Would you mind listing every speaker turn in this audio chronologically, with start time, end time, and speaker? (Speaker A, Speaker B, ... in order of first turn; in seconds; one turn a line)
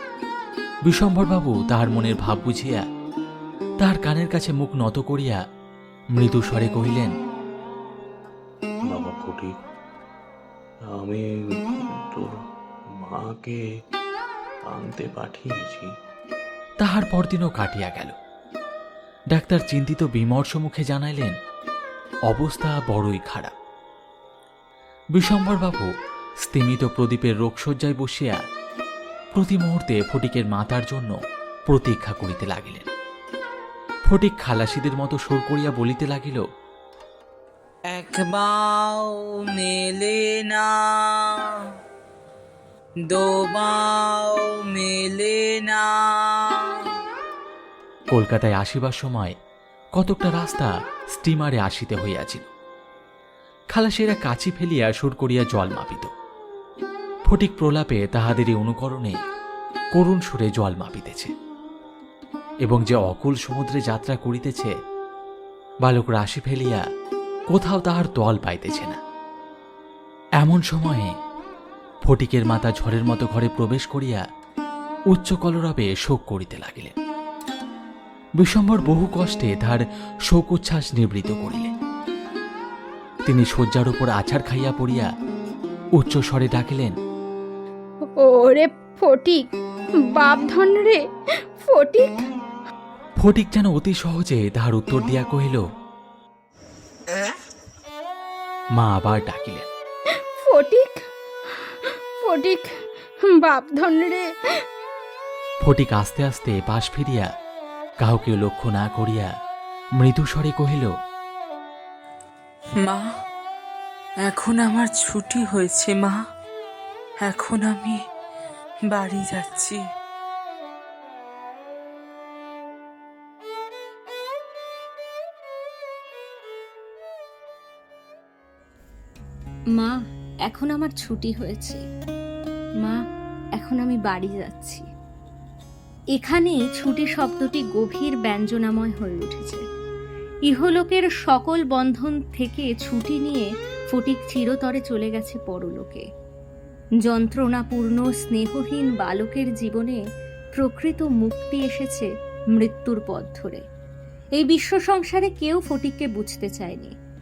Speaker A: 0.8-2.8
Speaker A: 3.8-5.4
Speaker A: 6.1-7.1
Speaker B: 8.9-9.5
Speaker B: 11.0-12.3
Speaker B: 13.0-13.6
Speaker B: 14.7-15.9
Speaker A: 16.8-18.1
Speaker A: 19.3-21.3
Speaker A: 22.3-23.5
Speaker A: 25.1-25.9
Speaker A: 26.4-28.4
Speaker A: 29.4-31.2
Speaker A: 31.7-32.9
Speaker A: 34.1-36.4
Speaker C: 37.9-39.1
Speaker C: 39.6-40.7
Speaker C: 43.4-45.9
Speaker A: 48.1-49.4
Speaker A: 49.9-52.5
Speaker A: 53.7-56.1
Speaker A: 57.3-59.2
Speaker A: 59.9-61.3
Speaker A: 62.6-64.7
Speaker A: 65.8-66.8
Speaker A: 67.5-69.0
Speaker A: 70.4-71.1
Speaker A: 72.0-74.2
Speaker A: 75.1-76.9
Speaker A: 78.4-81.7
Speaker A: 83.2-85.1
Speaker A: 86.0-87.0
Speaker D: 88.1-89.5
Speaker D: 90.1-91.0
Speaker D: 91.6-92.3
Speaker A: 93.2-95.6
Speaker A: 98.8-99.7
Speaker D: 100.4-101.0
Speaker D: 101.6-104.3
Speaker A: 105.6-107.3
Speaker A: 108.0-109.3
Speaker A: 110.0-110.9
Speaker E: 114.3-116.1
Speaker E: 117.3-117.9
Speaker E: 118.9-119.8
Speaker F: 129.8-131.8
Speaker F: 133.6-134.8
Speaker F: 136.2-139.6
Speaker F: 140.5-146.0
Speaker F: 147.0-150.0
Speaker F: 150.6-153.6
Speaker F: 154.4-156.9